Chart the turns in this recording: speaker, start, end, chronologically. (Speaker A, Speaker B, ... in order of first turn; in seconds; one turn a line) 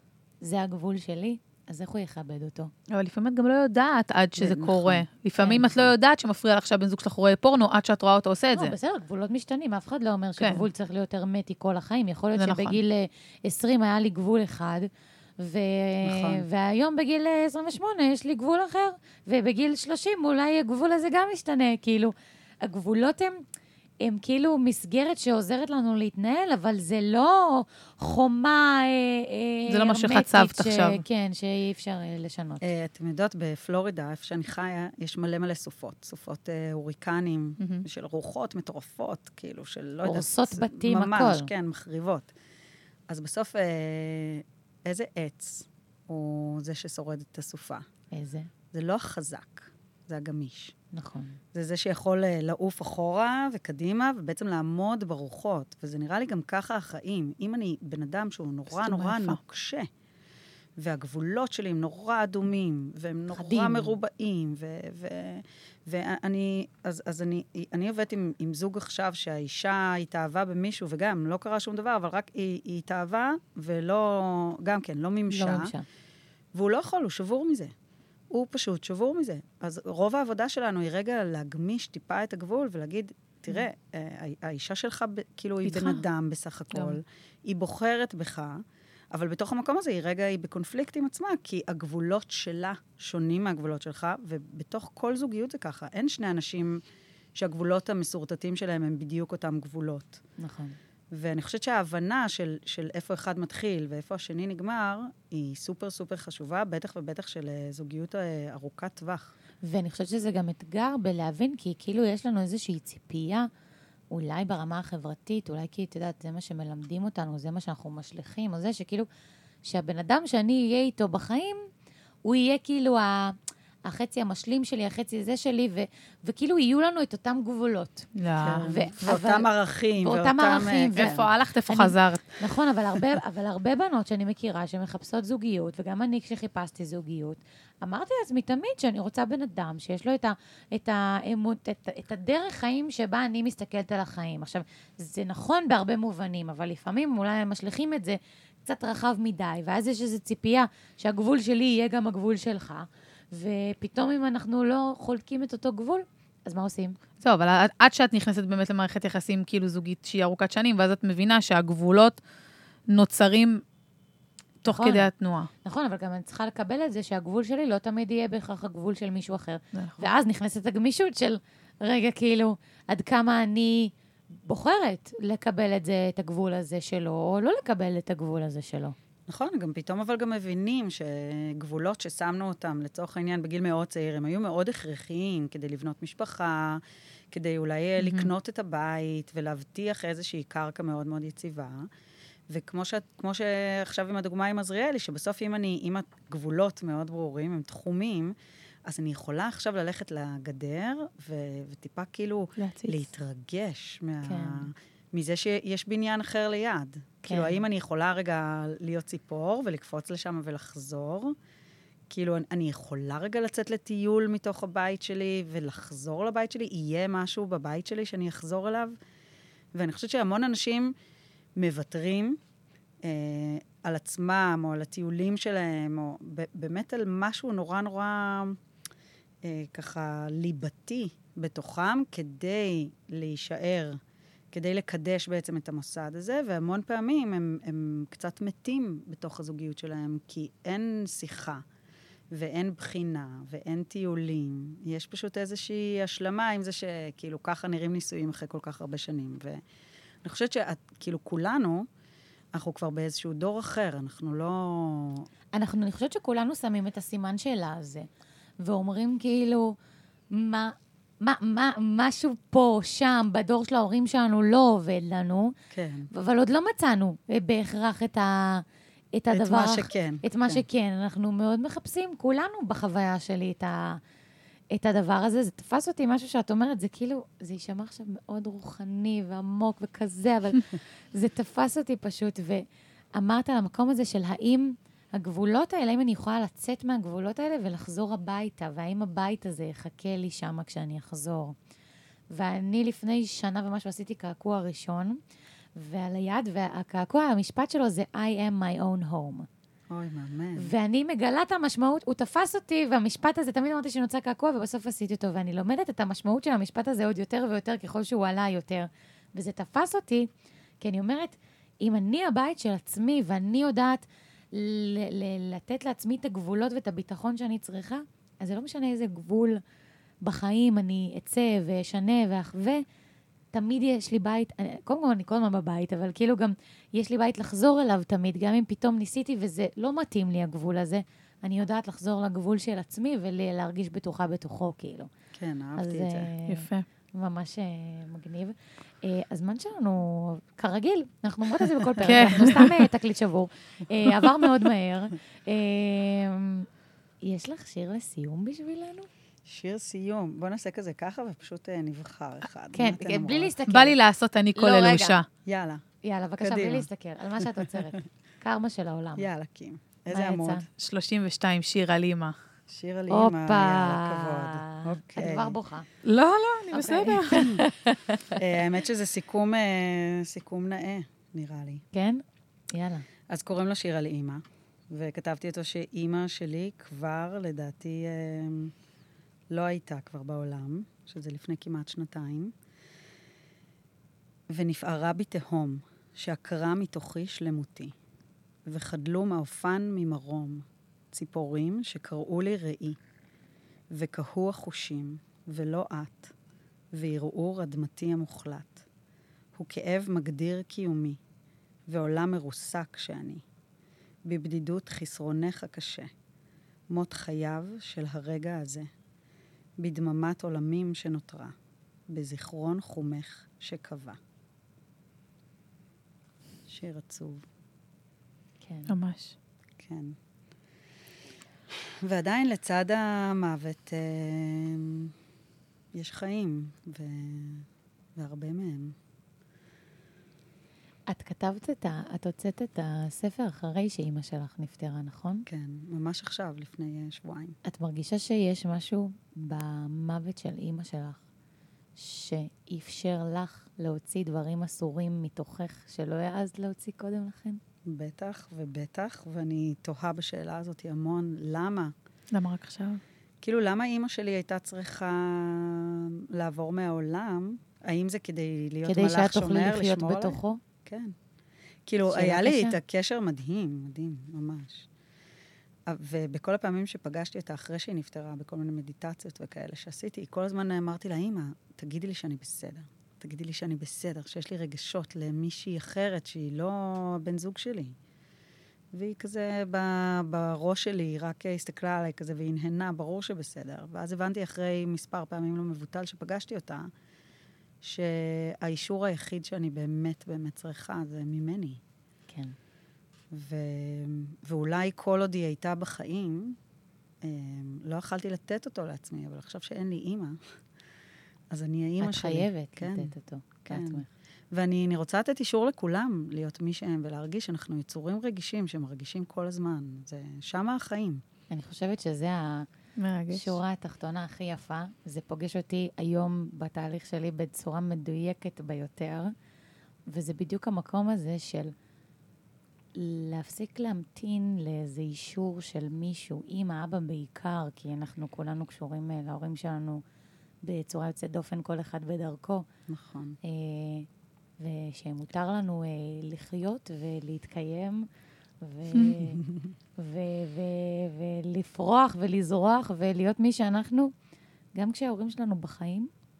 Speaker A: 0.4-2.7
Speaker B: 2.9-8.7
Speaker C: 4.4-5.0
Speaker A: 5.4-5.9
Speaker A: 8.5-23.4
Speaker B: 12.3-12.8
Speaker C: 16.0-16.4
Speaker A: 24.0-32.7
Speaker B: 29.7-31.0
Speaker C: 32.6-42.3
Speaker B: 37.6-37.8
Speaker A: 40.0-41.5
Speaker C: 43.1-47.8
Speaker A: 48.1-48.5
Speaker C: 48.7-50.7
Speaker A: 50.9-51.4
Speaker C: 51.5-59.9
Speaker B: 58.7-59.4
Speaker C: 60.8-75.7
Speaker A: 63.3-63.9
Speaker A: 75.3-75.8
Speaker C: 76.5-77.7
Speaker C: 78.3-88.6
Speaker B: 85.7-86.0
Speaker C: 89.1-96.8
Speaker C: 97.3-100.2
Speaker A: 100.4-100.8
Speaker C: 101.1-109.3
Speaker A: 109.6-113.5
Speaker A: 114.1-119.1
Speaker A: 119.6-121.6
Speaker A: 122.2-128.1
Speaker B: 128.1-128.7
Speaker C: 128.4-131.3
Speaker A: 128.6-157.0
Speaker B: 130.9-132.4
Speaker B: 157.2-162.2
Speaker B: 162.9-163.6
Speaker B: 164.6-165.5
Speaker A: 164.6-165.1
Speaker A: 165.6-178.9
Speaker B: 169.7-170.1
Speaker C: 179.3-191.9
Speaker B: 188.0-188.3
Speaker C: 192.5-198.3
Speaker C: 198.8-211.3
Speaker B: 202.6-203.1
Speaker A: 204.2-204.7
Speaker A: 207.2-207.6
Speaker C: 212.1-219.0
Speaker C: 219.7-220.9
Speaker C: 221.6-222.4
Speaker C: 223.0-228.6
Speaker C: 229.4-234.0
Speaker C: 234.5-241.6
Speaker C: 242.3-249.6
Speaker C: 250.2-251.8
Speaker C: 252.5-255.3
Speaker A: 255.5-258.1
Speaker A: 258.6-259.8
Speaker A: 260.3-265.5
Speaker C: 265.7-266.1
Speaker A: 266.1-274.0
Speaker C: 269.3-270.6
Speaker A: 274.7-282.6
Speaker A: 283.1-291.6
Speaker A: 292.3-295.2
Speaker A: 295.8-299.5
Speaker C: 299.9-300.7
Speaker A: 300.6-310.3
Speaker A: 310.8-319.6
Speaker A: 320.2-322.8
Speaker A: 323.5-335.1
Speaker C: 335.3-336.3
Speaker A: 335.8-346.7
Speaker B: 336.5-336.9
Speaker B: 342.0-342.8
Speaker A: 347.2-349.1
Speaker C: 349.4-353.6
Speaker A: 352.7-354.0
Speaker B: 353.7-355.2
Speaker A: 354.5-355.2
Speaker C: 355.4-355.8
Speaker A: 356.0-359.3
Speaker C: 356.4-356.9
Speaker C: 357.5-357.9
Speaker C: 359.2-360.7
Speaker A: 360.1-360.6
Speaker B: 360.8-362.4
Speaker C: 362.7-365.6
Speaker A: 363.1-365.9
Speaker B: 366.0-367.5
Speaker A: 366.7-368.4
Speaker C: 367.3-367.6
Speaker C: 368.3-371.8
Speaker A: 371.9-373.1
Speaker C: 373.3-378.7
Speaker C: 379.5-382.5
Speaker C: 384.5-387.9
Speaker C: 388.6-393.0
Speaker C: 393.9-396.3
Speaker C: 396.9-398.8
Speaker C: 399.5-401.2
Speaker C: 401.9-403.4
Speaker C: 404.2-406.1
Speaker C: 406.9-408.9
Speaker C: 409.8-411.5
Speaker C: 412.1-414.2
Speaker C: 416.7-417.4
Speaker A: 418.6-418.9
Speaker B: 418.9-419.3
Speaker C: 419.8-420.1
Speaker C: 421.7-425.1
Speaker C: 425.9-428.9
Speaker A: 431.1-435.4
Speaker C: 435.5-437.6
Speaker A: 437.6-441.2
Speaker A: 441.9-447.6
Speaker C: 447.9-451.9
Speaker B: 452.3-453.0
Speaker C: 453.4-461.1
Speaker A: 458.8-460.6
Speaker C: 461.9-464.9
Speaker A: 462.1-462.8
Speaker C: 465.9-477.9
Speaker C: 478.9-486.9
Speaker C: 487.8-491.8
Speaker A: 492.3-492.6
Speaker C: 493.3-496.6
Speaker C: 497.2-500.4
Speaker C: 501.5-503.1
Speaker A: 502.0-504.1
Speaker C: 503.6-511.2
Speaker A: 511.5-512.7
Speaker B: 513.0-513.6
Speaker A: 513.3-519.3
Speaker A: 520.1-521.7
Speaker A: 523.0-530.0
Speaker A: 530.6-532.7
Speaker C: 532.9-533.4
Speaker A: 533.4-534.1
Speaker A: 534.6-538.1
Speaker A: 538.6-539.4
Speaker C: 539.4-539.7
Speaker A: 540.0-544.1
Speaker A: 544.8-546.1